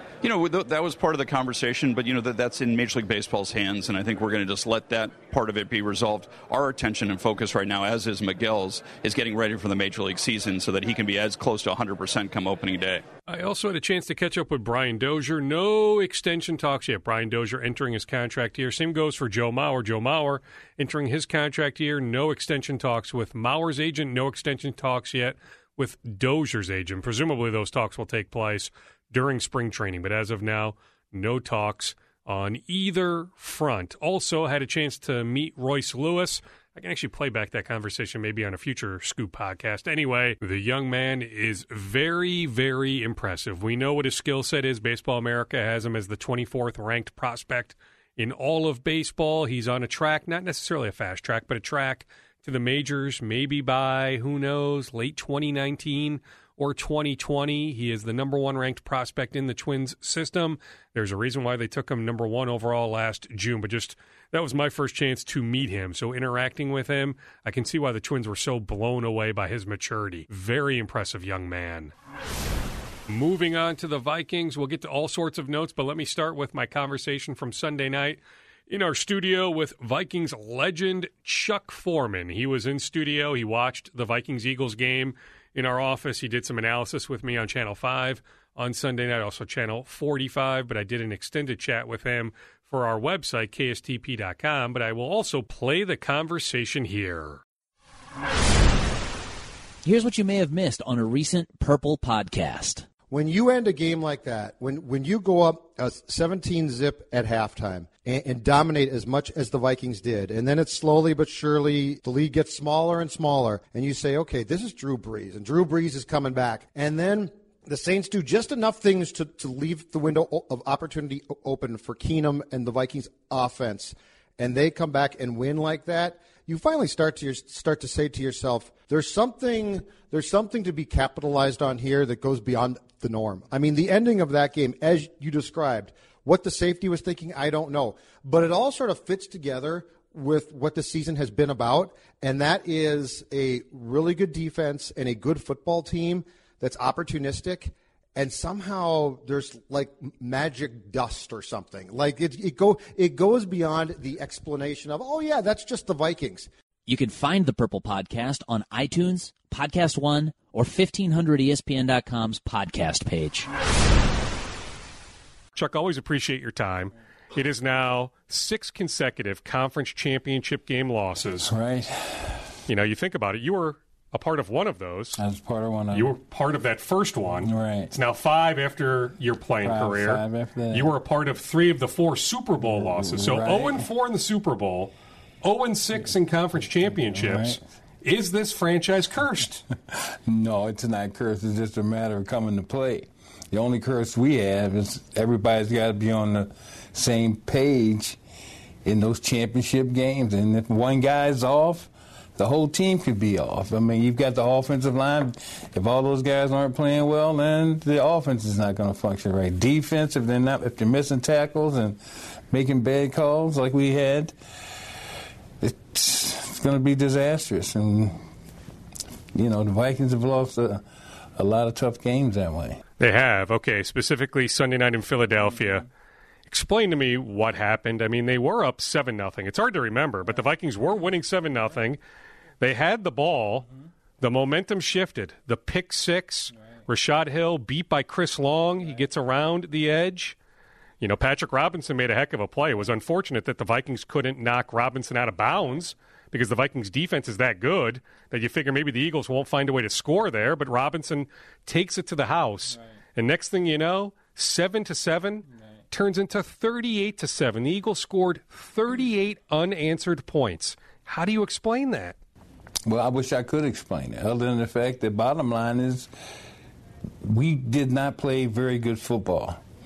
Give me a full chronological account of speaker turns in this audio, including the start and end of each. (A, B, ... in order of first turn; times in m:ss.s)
0:00.2-0:13.0 A
0:13.3-1:11.9 B
1:13.1-1:37.4 B
1:39.8-1:42.9 C
1:43.1-2:36.5 D
2:36.9-2:43.5 C
2:45.6-2:51.5 B
2:51.4-2:52.5 E
2:52.7-2:55.2 B
2:55.2-2:56.1 E
2:55.9-3:09.7 B
2:57.4-2:57.9 E
2:59.6-3:00.9 E
3:02.6-3:03.9 E
3:07.2-3:07.6 E
3:09.9-3:18.2 E
3:18.8-3:32.0 E
3:32.5-3:34.4 E
3:35.6-3:38.2 E
3:39.3-3:40.8 E
3:41.4-3:42.8 E
3:43.0-3:45.9 B
3:46.5-3:52.0 B
3:52.6-3:53.7 B
3:54.2-4:00.4 B
4:01.0-4:22.2 B
4:22.9-4:26.1 E
4:27.2-4:29.6 E